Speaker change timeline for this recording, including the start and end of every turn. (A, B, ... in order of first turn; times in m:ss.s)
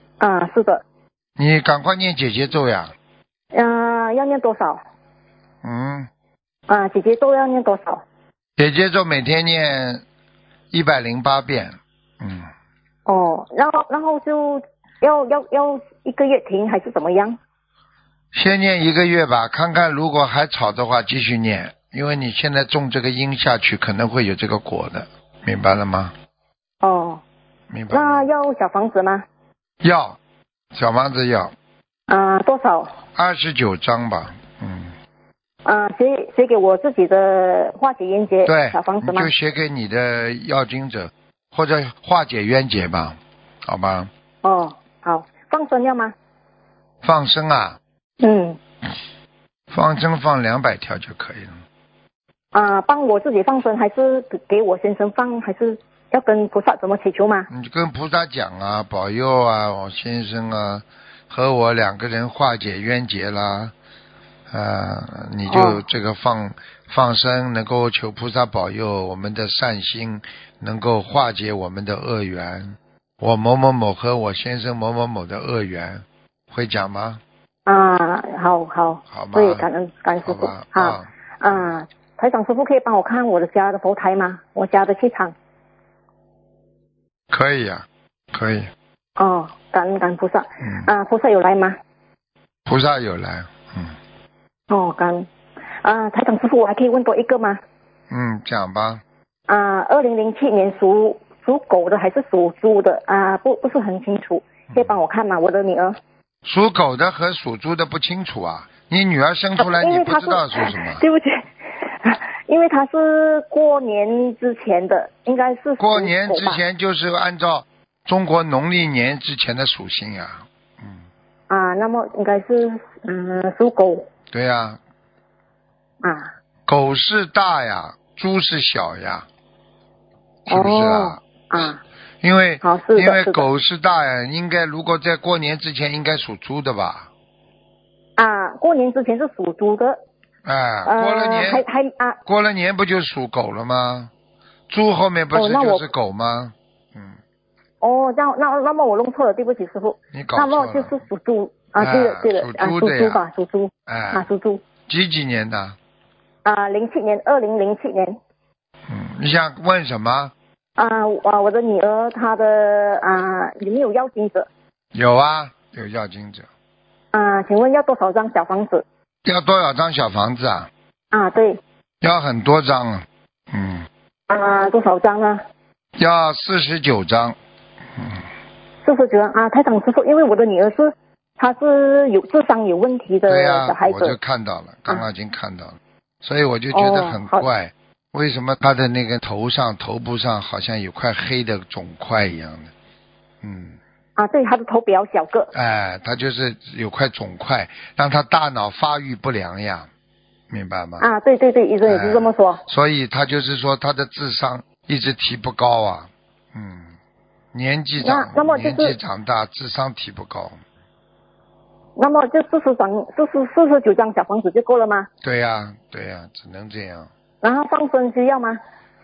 0:00.2-0:00.8 A
0:01.4-0:02.9 B
0:03.5-0:04.8 A
0:05.6-0:06.1 B
0:06.7-0:08.0 A
0:08.6-0:10.0 B
0:10.7-0:12.5 B
0:13.0-0:17.4 A
0:18.3-0:26.1 B
0:26.8-0:27.2 A
0:27.7-0:28.2 B
0:27.9-0:29.2 A
0:29.8-0:30.2 B
0:30.7-0:31.5 B
0:32.1-0:32.9 A
0:33.1-0:34.9 B
0:35.6-0:39.3 A
0:38.4-0:44.1 B
0:44.4-0:46.1 A
0:47.0-0:47.8 B
0:48.2-0:48.6 A
0:49.7-0:51.6 B
0:52.5-0:57.5 A
0:57.5-1:03.7 B
1:04.5-1:17.2 B
1:05.5-1:05.8 A
1:17.6-1:25.3 A
1:19.1-1:19.6 B
1:20.2-1:21.6 B
1:27.3-1:28.7 B
1:29.2-1:31.8 A
1:30.6-1:30.9 B
1:32.7-1:33.9 B
1:34.7-1:35.3 A
1:35.8-1:37.6 A
1:38.1-1:39.0 B
1:39.5-1:46.0 A
1:44.7-1:45.0 B
1:46.4-1:51.0 B
1:49.6-1:56.6 A
1:55.8-2:01.0 B
2:01.5-2:04.1 A
2:04.3-2:04.8 B
2:06.0-2:06.3 A
2:06.7-2:09.3 B
2:10.5-2:11.2 B
2:10.5-2:11.8 A
2:12.2-2:17.1 B
2:12.6-2:13.4 A
2:18.2-2:20.0 A
2:20.4-2:21.6 B
2:20.8-2:22.2 A
2:22.2-2:24.1 B
2:24.7-2:27.2 B
2:25.3-2:25.9 A
2:27.8-2:34.6 A
2:30.1-2:31.0 B
2:31.8-2:33.2 B
2:33.9-2:34.2 B
2:34.9-2:35.8 B
2:36.4-2:38.2 A
2:38.9-2:40.3 B
2:40.8-2:44.5 A
2:44.9-2:46.5 B
2:47.1-2:48.8 A
2:49.2-2:50.7 B
2:51.1-2:51.6 A
2:52.0-2:53.9 B
2:54.3-2:55.4 A
2:56.0-2:57.4 B
2:58.0-2:58.2 B
2:58.8-3:04.2 A
3:03.3-3:12.7 B
3:06.7-3:07.4 A
3:13.4-3:13.8 B
3:14.2-3:15.5 A
3:15.5-3:19.9 B
3:20.5-3:21.1 B
3:21.0-3:22.6 A
3:21.8-3:26.9 B
3:27.5-3:30.6 B
3:28.0-3:29.0 A
3:32.0-3:35.1 A
3:35.2-3:37.1 B
3:37.4-3:38.6 A